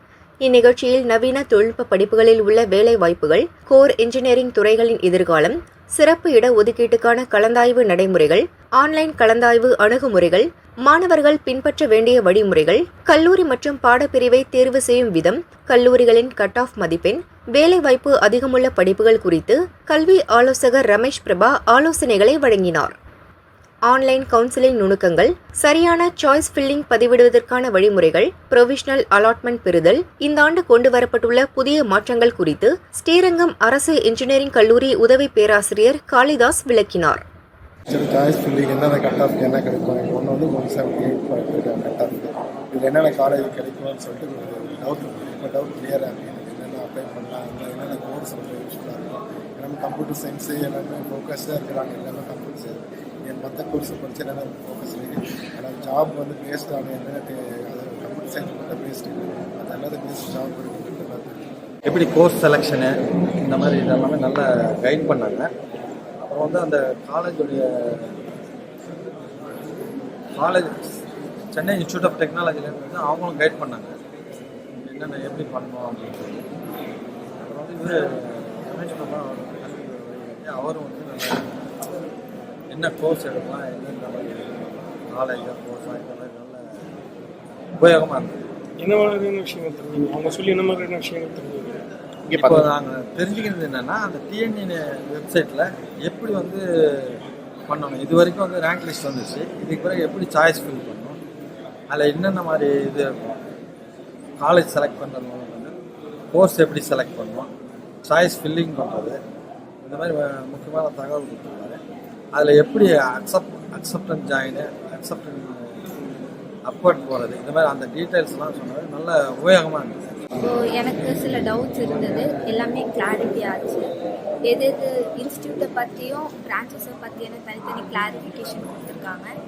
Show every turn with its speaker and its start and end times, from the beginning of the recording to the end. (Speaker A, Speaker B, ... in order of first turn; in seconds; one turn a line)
Speaker A: 0.4-22.9
Speaker A: 23.9-37.2
Speaker B: 37.9-61.4
Speaker C: 61.9-65.5
Speaker C: 66.2-68.3
Speaker C: 70.4-70.7
Speaker C: 71.5-74.0
Speaker C: 74.8-76.5
Speaker C: 77.4-81.5
Speaker C: 82.7-86.9
Speaker C: 87.8-88.5
Speaker D: 88.8-91.8
Speaker C: 92.3-101.2
Speaker C: 101.9-103.4
Speaker C: 104.4-105.7
Speaker C: 106.3-107.5
Speaker C: 108.0-109.2
Speaker C: 109.8-111.8
Speaker C: 112.3-115.8
Speaker C: 116.6-120.1
Speaker E: 120.4-123.9
Speaker E: 124.5-129.3